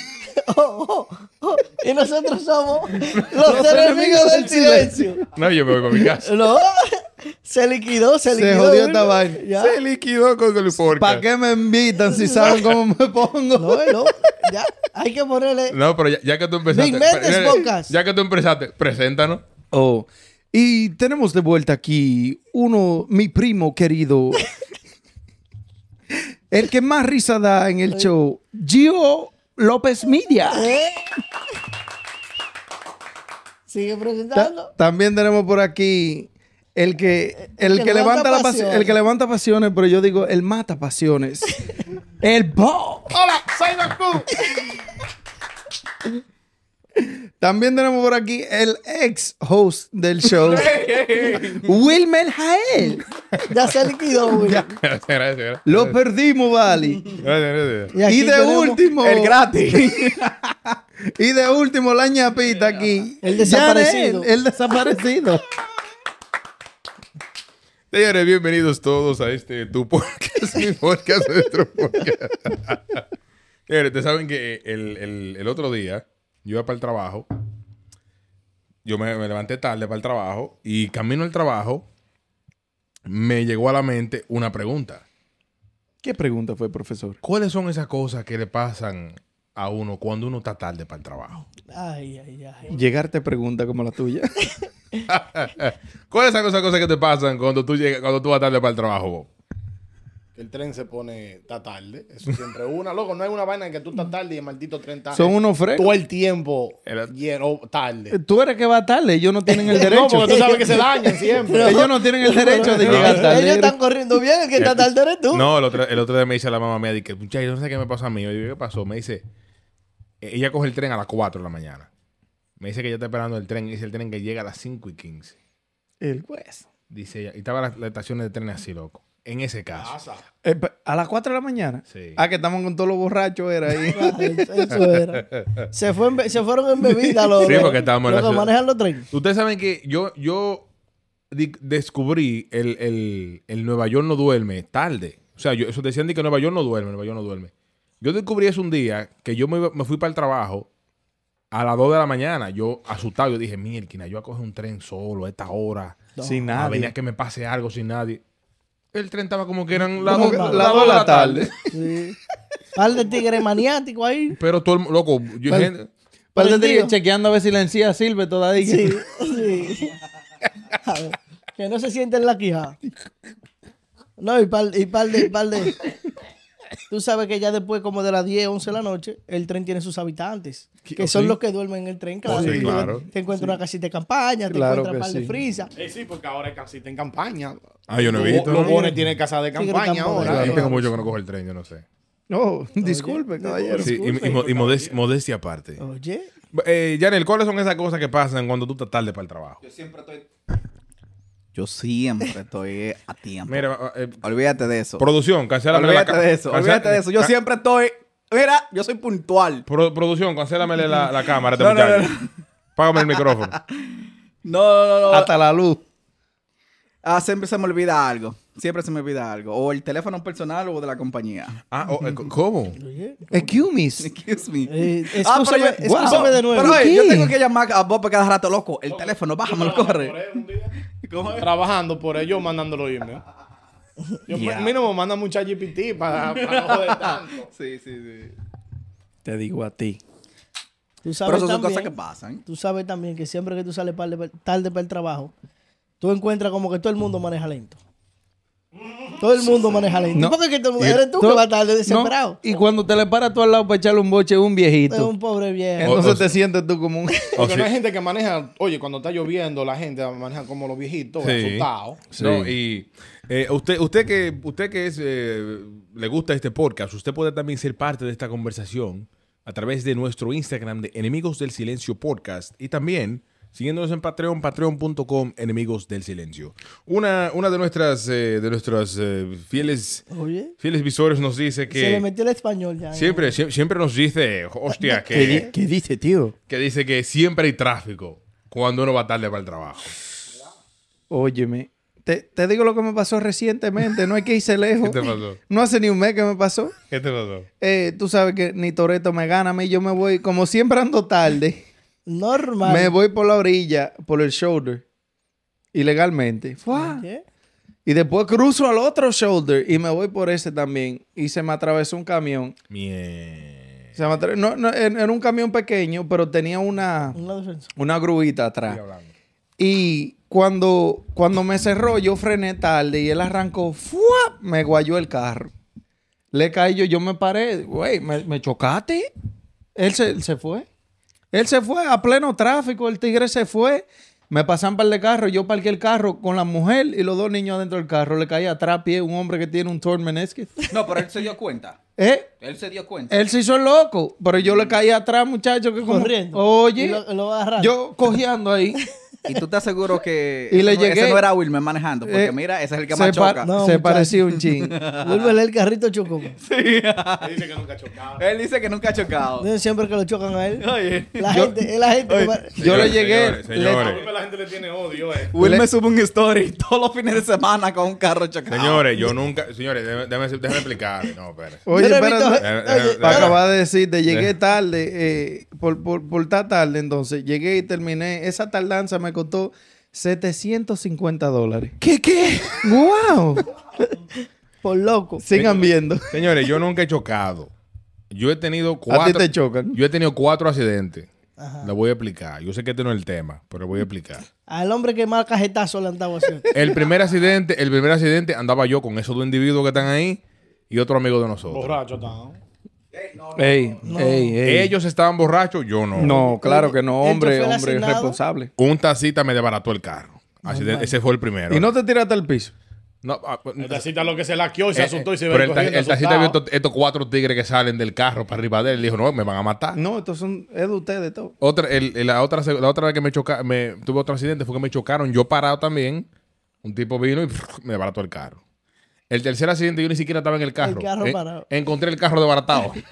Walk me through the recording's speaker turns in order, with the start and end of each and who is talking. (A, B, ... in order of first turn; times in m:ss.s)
0:00.3-0:05.2 A
0:03.3-0:05.2 B
0:05.3-0:06.4 C
0:06.1-0:09.8 A
0:08.3-0:09.4 B
0:09.5-0:11.2 C
0:10.9-0:14.3 B
0:12.0-0:12.6 A
0:13.6-0:15.8 A
0:15.7-0:19.4 C
0:16.7-0:17.9 A
0:19.7-0:24.4 B
0:26.5-0:30.7 B
0:30.5-0:31.2 A
0:33.7-0:34.7 A
0:34.3-0:41.6 B
0:37.5-0:38.9 A
0:42.2-0:43.2 B
0:43.1-0:44.4 D
0:47.0-0:50.8 B
0:50.2-0:51.7 E
0:51.6-0:53.0 B
0:53.5-0:54.7 A
0:54.3-0:54.6 B
0:54.7-0:55.9 C
0:55.6-0:57.0 B
0:57.1-0:57.9 C
0:57.9-0:58.8 A
0:58.0-1:00.0 B
0:59.0-1:00.8 E
1:01.1-1:05.4 B
1:03.2-1:04.4 A
1:07.9-1:13.0 C
1:13.7-1:17.3 C
1:18.8-1:21.9 C
1:23.0-1:25.0 C
1:26.0-1:27.2 B
1:27.2-1:31.4 C
1:31.6-1:32.8 A
1:32.7-1:34.4 B
1:35.1-1:39.3 C
1:40.4-1:48.2 D
1:45.1-1:45.9 B
1:46.8-1:47.1 C
1:48.1-1:50.7 B
1:49.5-1:55.5 A
1:49.7-1:51.9 D
1:51.5-1:53.8 B
1:52.8-1:53.2 C
1:54.6-1:59.2 C
2:00.2-2:01.9 C
2:02.6-2:05.4 C
2:06.0-2:06.7 B
2:06.9-2:10.0 C
2:09.7-2:10.2 D
2:10.4-2:14.4 B
2:11.9-2:12.2 C
2:13.9-2:19.1 A
2:16.8-2:17.8 B
2:17.4-2:18.5 C
2:19.1-2:20.7 C
2:21.3-2:30.7 C
2:31.5-2:38.2 C
2:36.2-2:36.4 A
2:36.2-2:36.9 B
2:38.9-2:41.5 C
2:40.0-2:41.5 B
2:40.0-2:41.0 A
2:41.7-2:42.2 A
2:42.7-2:44.4 A
2:44.3-2:45.9 C
2:46.3-2:49.0 B
2:46.4-2:46.9 A
2:48.6-2:49.9 A
2:50.8-2:52.8 A
2:54.2-2:55.8 A
2:56.9-3:05.7 A
3:00.8-3:01.4 C
3:02.2-3:03.0 C
3:02.3-3:03.6 B
3:04.5-3:05.4 B
3:05.8-3:10.7 D
3:07.9-3:08.9 C
3:08.2-3:08.8 B
3:09.6-3:10.8 A
3:10.2-3:11.8 C
3:10.2-3:10.7 B
3:12.3-3:14.0 B
3:12.8-3:14.4 A
3:13.8-3:15.8 C
3:14.2-3:15.0 D
3:15.8-3:16.3 A
3:16.5-3:19.6 C
3:19.6-3:20.3 E
3:21.5-3:23.6 E
3:23.5-3:24.2 C
3:24.2-3:25.0 E
3:25.0-3:27.3 C
3:25.7-3:29.6 E
3:29.6-3:32.1 C
3:31.6-3:32.3 E
3:32.8-3:33.6 C
3:32.9-3:33.8 E
3:34.4-3:35.3 E
3:35.1-3:35.8 B
3:37.0-3:41.6 E
3:41.7-3:42.8 C
3:42.8-3:43.5 A
3:43.3-3:44.1 B
3:44.0-3:50.2 E
3:44.7-3:46.8 A
3:45.8-3:47.3 B
3:48.9-3:50.7 D
3:51.0-3:51.5 E
3:51.3-3:53.2 D
3:54.3-3:57.5 D
3:54.3-3:54.7 E
3:56.5-3:58.3 E
3:59.2-4:00.0 B
4:01.0-4:01.9 A
4:01.2-4:02.4 E
4:02.4-4:05.3 A
4:06.0-4:07.8 A
4:09.2-4:12.4 A
4:10.1-4:15.1 B
4:14.9-4:16.0 A
4:15.8-4:17.3 B
4:15.8-4:16.3 C
4:17.4-4:22.1 D
4:17.4-4:17.7 C
4:21.2-4:40.0 C
4:22.1-4:22.5 B
4:40.1-4:40.5 A
4:40.6-4:42.0 C
4:41.7-4:43.3 A
4:42.9-4:45.5 C
4:44.7-4:45.5 A
4:45.1-4:46.3 B
4:46.5-4:50.0 C
4:51.1-4:56.7 B
4:54.8-4:55.4 C
4:56.9-4:57.5 C
4:57.6-5:01.6 B
5:02.1-5:02.9 A
5:02.6-5:04.8 B
5:05.7-5:07.0 B
5:06.7-5:07.2 A
5:07.8-5:12.6 B
5:12.7-5:13.9 C
5:14.0-5:17.2 B
5:17.1-5:17.7 A
5:17.8-5:18.8 B
5:18.7-5:19.1 C
5:19.6-5:25.5 B
5:26.3-5:29.1 B
5:29.7-5:30.7 B
5:31.3-5:40.7 B
5:40.7-5:41.8 E
5:42.0-5:42.3 B
5:42.4-5:43.1 E
5:43.1-5:47.0 B
5:45.8-5:47.7 A
5:47.6-5:48.8 B
5:49.2-5:53.5 E
5:50.5-5:51.3 B
5:52.0-5:52.3 B
5:52.9-5:54.8 B
5:53.4-5:54.2 A
5:54.4-5:55.3 E
5:55.0-5:56.4 A
5:56.4-5:57.4 E
5:57.2-5:58.2 D
5:58.2-5:59.5 E
5:59.4-6:02.6 A
6:00.6-6:01.4 E
6:01.3-6:01.5 B
6:02.1-6:02.9 E
6:02.6-6:04.1 C
6:02.6-6:04.0 B
6:03.6-6:05.3 D
6:05.3-6:09.1 E
6:05.4-6:05.6 B
6:08.5-6:11.6 C
6:11.6-6:12.5 B
6:11.7-6:13.3 A
6:12.4-6:13.4 C
6:13.0-6:23.5 B
6:23.9-6:25.2 A
6:25.2-6:26.2 B
6:25.3-6:27.5 C
6:28.1-6:31.1 C
6:28.9-6:29.8 B
6:31.4-6:31.7 A
6:31.6-6:34.2 C
6:34.5-6:36.8 A
6:36.5-6:41.8 C
6:41.5-6:42.4 D
6:42.9-6:43.8 E
6:43.4-6:44.7 B
6:43.8-6:44.4 A
6:44.4-6:46.2 C
6:45.9-6:48.5 B
6:46.0-6:48.2 A
6:48.6-6:51.7 C
6:50.4-6:50.9 A
6:51.5-6:52.5 B
6:53.0-6:53.8 C
6:53.6-6:56.4 D
6:54.7-6:59.8 C
6:59.7-7:01.3 B
7:01.4-7:06.0 C
7:06.6-7:08.4 C
7:09.1-7:12.8 C
7:10.6-7:11.5 A